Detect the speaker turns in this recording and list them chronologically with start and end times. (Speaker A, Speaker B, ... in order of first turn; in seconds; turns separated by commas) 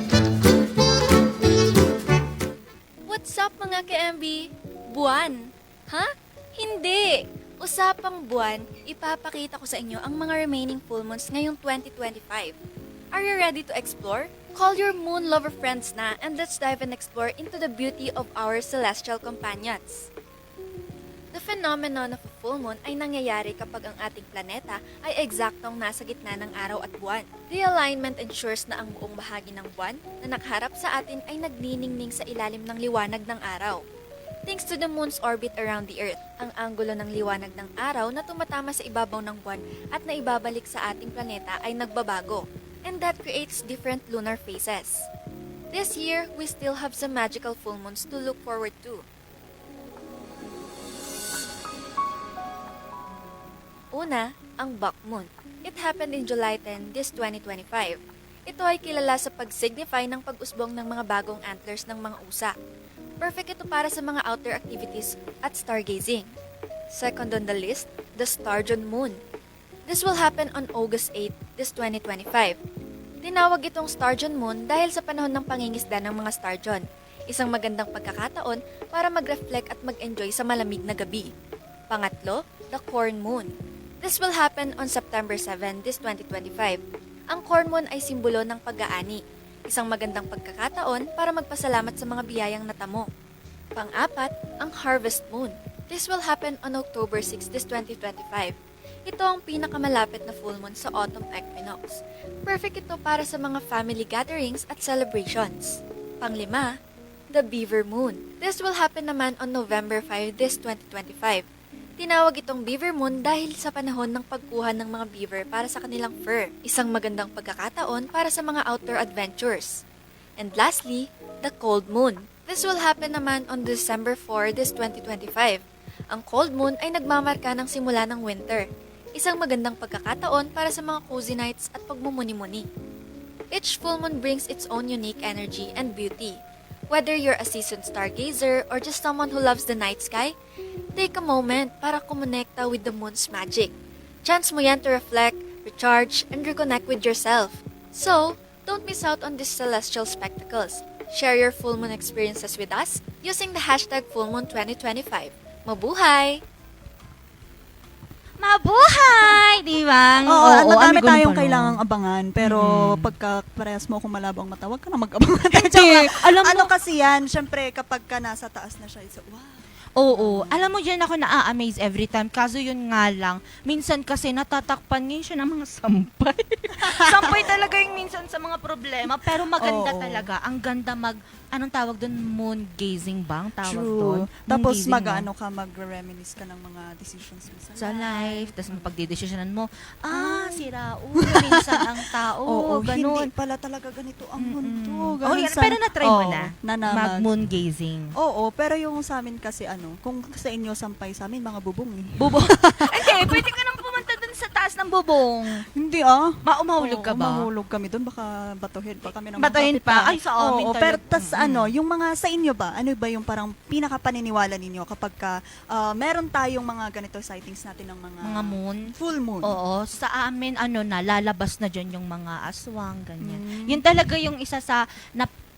Speaker A: 3.1-12.5, Speaker A: 13.1-20.1, Speaker A: 21.3-33.8, Speaker A: 34.5-45.1, Speaker A: 45.7-49.0, Speaker A: 54.0-62.5, Speaker A: 63.2-66.3, Speaker A: 66.9-69.2, Speaker A: 69.9-72.6, Speaker A: 73.2-81.3, Speaker A: 81.9-83.5, Speaker A: 84.0-86.8, Speaker A: 87.3-93.1, Speaker A: 93.8-98.5, Speaker A: 99.1-106.7, Speaker A: 107.3-111.4, Speaker A: 112.0-119.8, Speaker A: 120.4-125.6, Speaker A: 126.1-132.7, Speaker A: 133.5-136.4, Speaker A: 136.9-140.3, Speaker A: 141.0-143.7, Speaker A: 144.2-156.4, Speaker B: 158.4-161.8, Speaker C: 160.3-170.7, Speaker B: 162.4-163.1, Speaker B: 165.5-166.7, Speaker B: 170.0-185.3, Speaker C: 176.8-177.5, Speaker C: 179.1-180.3, Speaker C: 183.6-188.9, Speaker B: 187.8-193.3, Speaker C: 190.1-190.7, Speaker C: 191.2-191.8, Speaker C: 192.5-197.3, Speaker B: 194.4-198.1, Speaker C: 198.2-203.4, Speaker B: 202.2-205.6, Speaker C: 205.8-219.6, Speaker B: 206.4-207.5, Speaker B: 209.4-211.7, Speaker B: 218.2-218.9, Speaker B: 219.4-225.3, Speaker C: 223.2-223.8